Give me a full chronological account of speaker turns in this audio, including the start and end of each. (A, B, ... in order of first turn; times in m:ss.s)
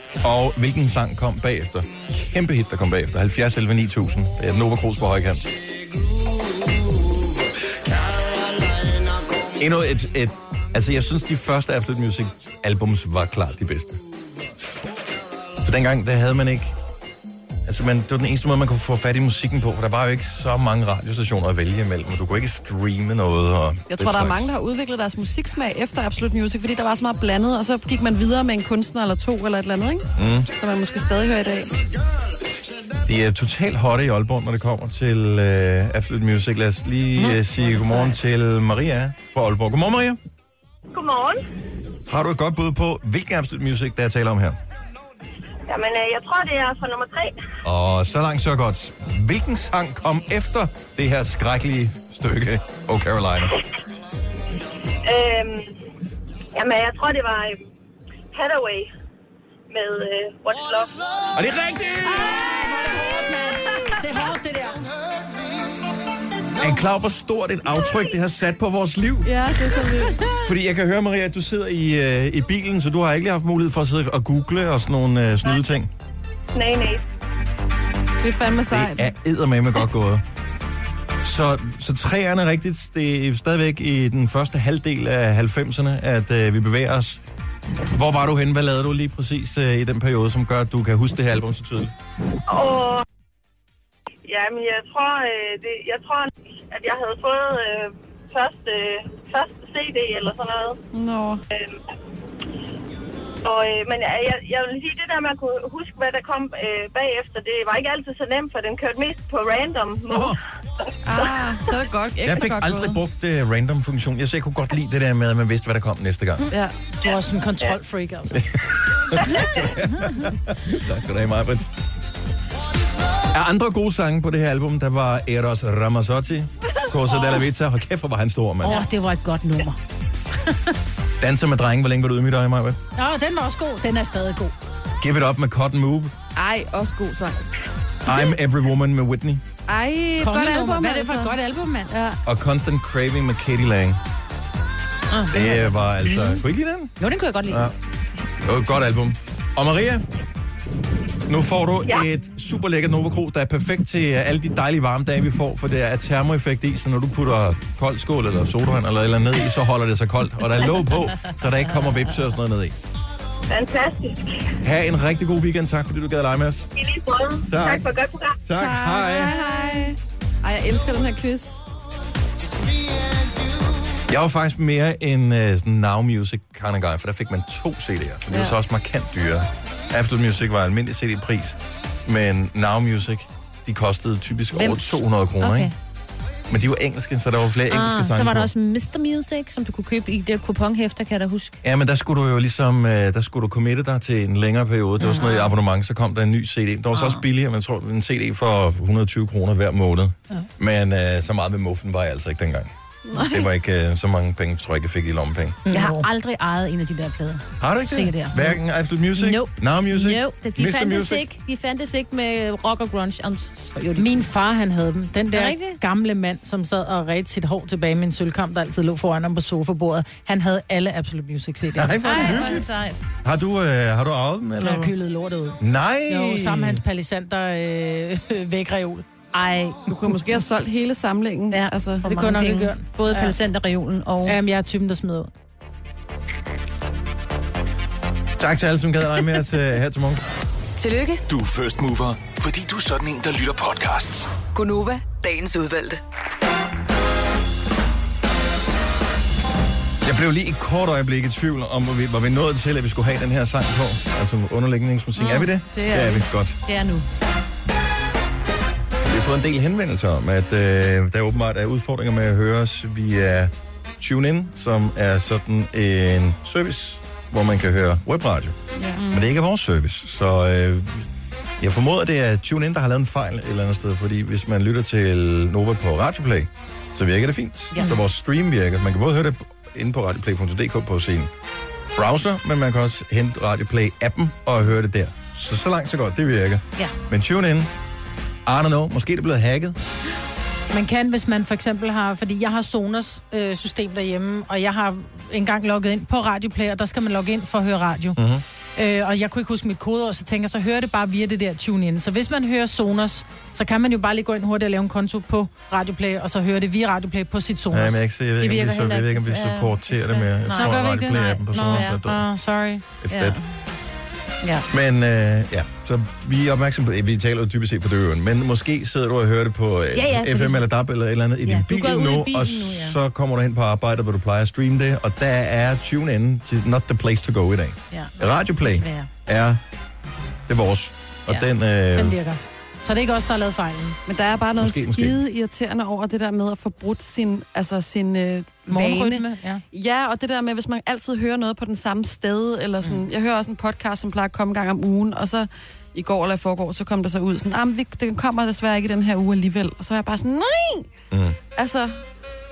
0:00.2-0:05.5 A
0:09.6-0:14.0 A
0:15.6-0:16.8 A
0:17.7-0:24.5 A
0:23.9-0:31.8 B
0:30.1-0:30.5 A
0:33.0-0:40.2 A
0:37.2-0:38.1 C
0:40.9-0:41.4 D
0:42.1-0:44.6 A
0:45.7-0:47.4 D
0:47.6-0:53.6 A
0:55.1-0:55.7 D
0:56.6-0:57.6 D
0:58.3-0:58.9 D
0:59.7-1:01.2 D
1:01.3-1:02.6 A
1:02.0-1:04.9 E
1:06.6-1:09.8 A
1:09.2-1:10.2 B
1:10.4-1:15.9 A
1:16.6-1:17.0 D
1:18.2-1:19.1 B
1:18.7-1:20.2 A
1:21.2-1:27.2 A
1:27.9-1:31.9 A
1:32.5-1:33.0 D
1:34.2-1:40.8 D
1:40.9-1:41.4 B
1:43.4-1:50.4 D
1:50.1-1:50.4 A
1:51.1-1:53.0 B
1:52.2-1:56.5 A
1:57.0-1:58.4 E
1:58.3-2:01.8 A
2:03.3-2:08.8 A
2:08.6-2:09.8 C
2:11.2-2:12.8 A
2:13.0-2:14.6 E
2:15.0-2:16.2 A
2:16.4-2:17.5 B
2:18.0-2:19.4 A
2:19.7-2:21.4 B
2:20.2-2:21.9 E
2:21.9-2:22.2 B
2:22.2-2:24.0 A
2:25.1-2:26.2 C
2:25.3-2:27.8 A
2:27.0-2:27.7 C
2:28.4-2:30.0 A
2:31.3-2:42.8 A
2:43.5-2:44.2 D
2:44.6-2:46.7 A
2:46.8-2:48.4 D
2:47.4-2:49.4 A
2:48.5-2:51.6 B
2:54.1-3:05.7 A
2:58.3-2:58.6 B
3:04.5-3:05.7 C
3:06.5-3:08.5 A
3:07.7-3:11.6 C
3:11.6-3:25.6 A
3:15.0-3:15.5 C
3:16.9-3:17.2 C
3:23.1-3:23.5 B
3:25.7-3:26.1 E
3:25.7-3:28.6 C
3:27.6-3:31.2 A
3:29.2-3:34.2 C
3:34.0-3:42.6 E
3:35.3-3:35.8 C
3:41.8-3:42.7 A
3:42.0-3:43.0 C
3:43.2-3:44.9 A
3:44.6-3:49.0 E
3:45.6-3:46.8 A
3:49.3-3:50.2 C
3:49.9-3:52.0 B
3:51.5-3:54.4 C
3:52.0-3:53.4 E
3:54.2-3:55.3 E
3:58.4-4:00.2 A
4:00.8-4:01.2 F
4:01.3-4:04.3 G
4:04.5-4:06.0 F
4:10.0-4:16.6 A
4:15.2-4:15.5 C
4:15.8-4:16.2 B
4:16.7-4:17.0 C
4:19.0-4:28.6 A
4:28.7-4:29.0 B
4:29.0-4:29.3 C
4:29.1-4:31.1 A
4:31.6-4:41.3 A
4:42.0-4:47.7 A
4:48.5-4:49.8 A
4:50.7-4:58.2 E
4:58.2-4:58.4 A
4:58.8-5:08.0 E
5:07.7-5:12.3 A
5:08.4-5:12.0 C
5:10.5-5:12.8 E
5:13.0-5:13.4 A
5:13.1-5:13.5 C
5:14.4-5:14.7 C
5:14.7-5:29.6 A
5:19.9-5:20.6 C
5:21.4-5:23.0 C
5:27.9-5:29.1 C
5:30.5-5:32.2 A
5:32.0-5:34.0 E
5:34.1-5:50.9 B
5:34.6-5:35.2 A
5:38.7-5:39.6 E
5:51.1-5:51.4 A
5:51.6-5:52.0 B